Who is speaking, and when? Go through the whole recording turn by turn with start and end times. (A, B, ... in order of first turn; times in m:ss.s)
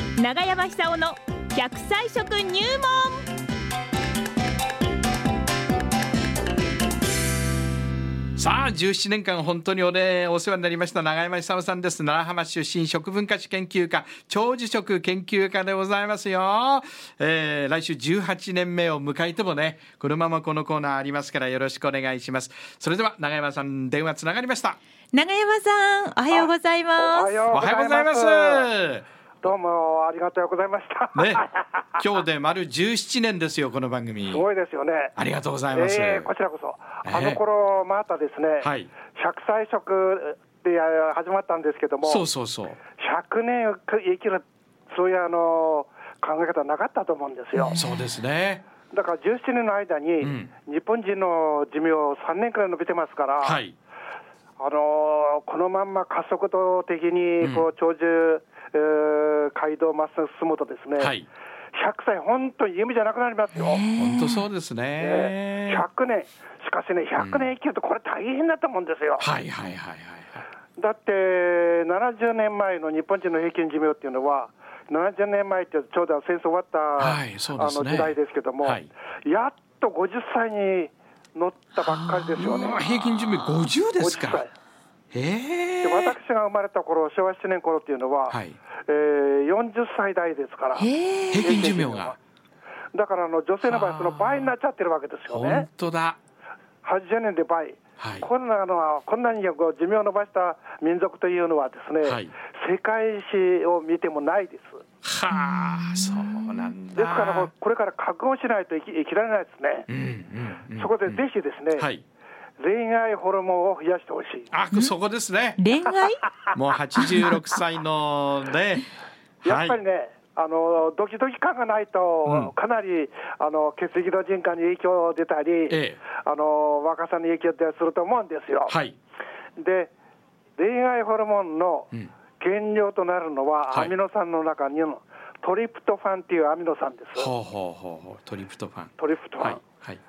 0:00.2-0:03.3 A
0:08.4-0:24.8 B
0:25.1-0:27.3 A
0:26.3-0:28.7 C
0:27.5-0:29.1 B
0:29.4-0:31.8 C
0:31.2-0:34.5 B
0:34.3-0:35.1 C
0:35.2-0:36.3 B
0:35.7-0:42.2 C
0:37.0-0:37.4 B
0:38.6-0:38.9 B
0:42.0-0:42.8 B
0:43.0-0:47.8 C
0:47.6-0:48.0 A
0:47.8-0:48.6 B
0:48.9-0:53.6 C
0:50.2-0:50.5 B
0:53.4-0:53.8 B
0:54.6-1:01.1 C
0:57.4-0:57.7 B
1:01.0-1:01.3 B
1:01.7-1:03.8 C
1:03.6-1:04.4 A
1:04.0-1:05.8 B
1:05.0-1:09.3 C
1:07.2-1:07.5 B
1:09.2-1:10.4 B
1:10.8-1:22.9 C
1:17.0-1:18.9 B
1:22.1-1:22.5 A
1:22.3-1:24.4 B
1:24.0-1:24.5 C
1:25.1-1:26.2 B
1:25.8-1:32.2 C
1:28.3-1:28.6 B
1:30.8-1:31.5 A
1:31.3-1:32.2 B
1:32.9-1:35.7 C
1:33.6-1:34.5 B
1:35.3-1:36.2 B
1:36.8-1:44.8 C
1:38.0-1:38.3 B
1:42.0-1:42.3 B
1:45.0-1:47.5 B
1:45.6-1:46.7 A
1:47.0-1:49.9 C
1:49.9-1:51.2 B
1:50.7-1:51.9 C
1:51.8-1:52.0 B
1:52.6-1:54.5 C
1:54.5-1:55.6 B
1:55.6-1:56.3 A
1:56.5-1:58.9 B
1:57.0-1:57.4 A
1:59.4-2:08.8 C
1:59.4-1:59.8 B
2:02.2-2:02.5 B
2:05.7-2:06.0 B
2:08.7-2:09.0 B
2:09.6-2:09.9 C
2:10.6-2:17.3 C
2:17.2-2:20.0 B
2:19.0-2:19.6 C